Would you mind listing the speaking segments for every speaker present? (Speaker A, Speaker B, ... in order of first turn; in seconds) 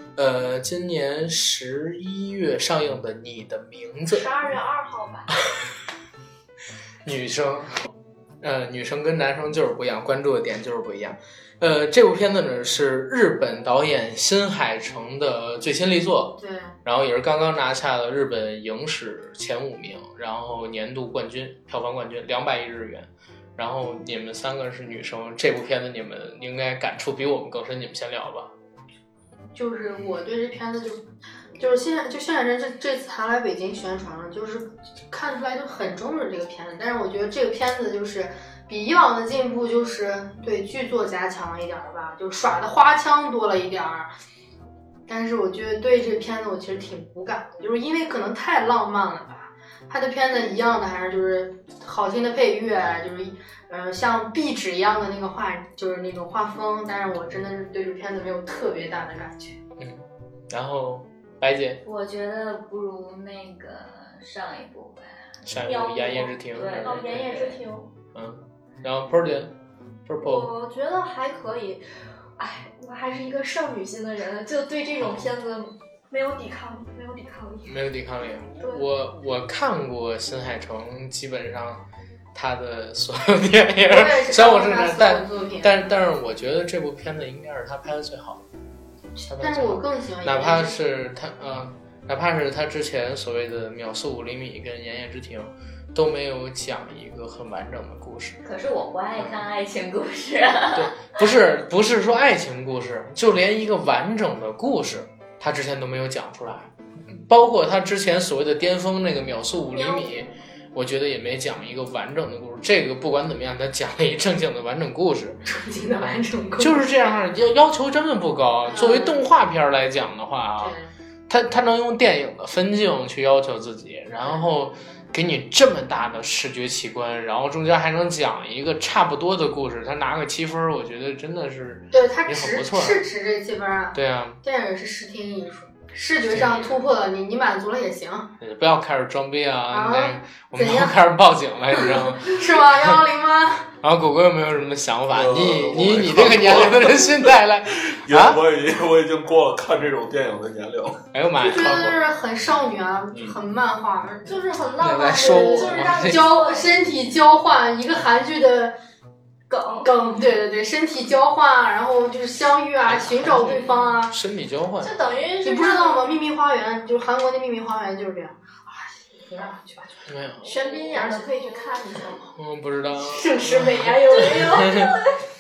Speaker A: 0.2-4.3, 7.0-7.9, 8.4-28.5, 59.8-61.8, 65.4-67.4, 68.2-69.5, 70.1-70.5, 75.0-75.3, 77.7-81.8, 82.3-88.4, 89.3-98.4, 100.7-115.4, 116.0-120.8, 121.3-133.0, 133.9-134.4, 136.3-136.8, 138.4-142.4, 143.8-148.4, 151.1-152.0, 154.8-156.3, 162.8-164.9, 170.1-170.6, 172.3-175.0
Speaker B: 4.1-5.3, 65.7-67.9, 70.2-71.8, 72.4-77.7, 109.7-110.2, 154.3-156.8, 159.5-159.9, 164.8-166.2, 170.4-172.3, 173.9-175.1
Speaker C: 16.4-16.7, 29.6-44.1, 45.1-59.6, 83.8-85.8, 89.2-90.8, 115.5-116.9, 118.7-119.2, 120.6-120.9, 131.9-138.3, 139.7-141.0, 141.8-143.7, 151.4-154.4, 155.1-158.8, 159.8-164.2, 165.4-170.0, 170.6-171.8, 173.0-174.8
Speaker D: 61.9-65.4, 66.5-67.6, 98.4-100.9
Speaker E: 145.1-151.0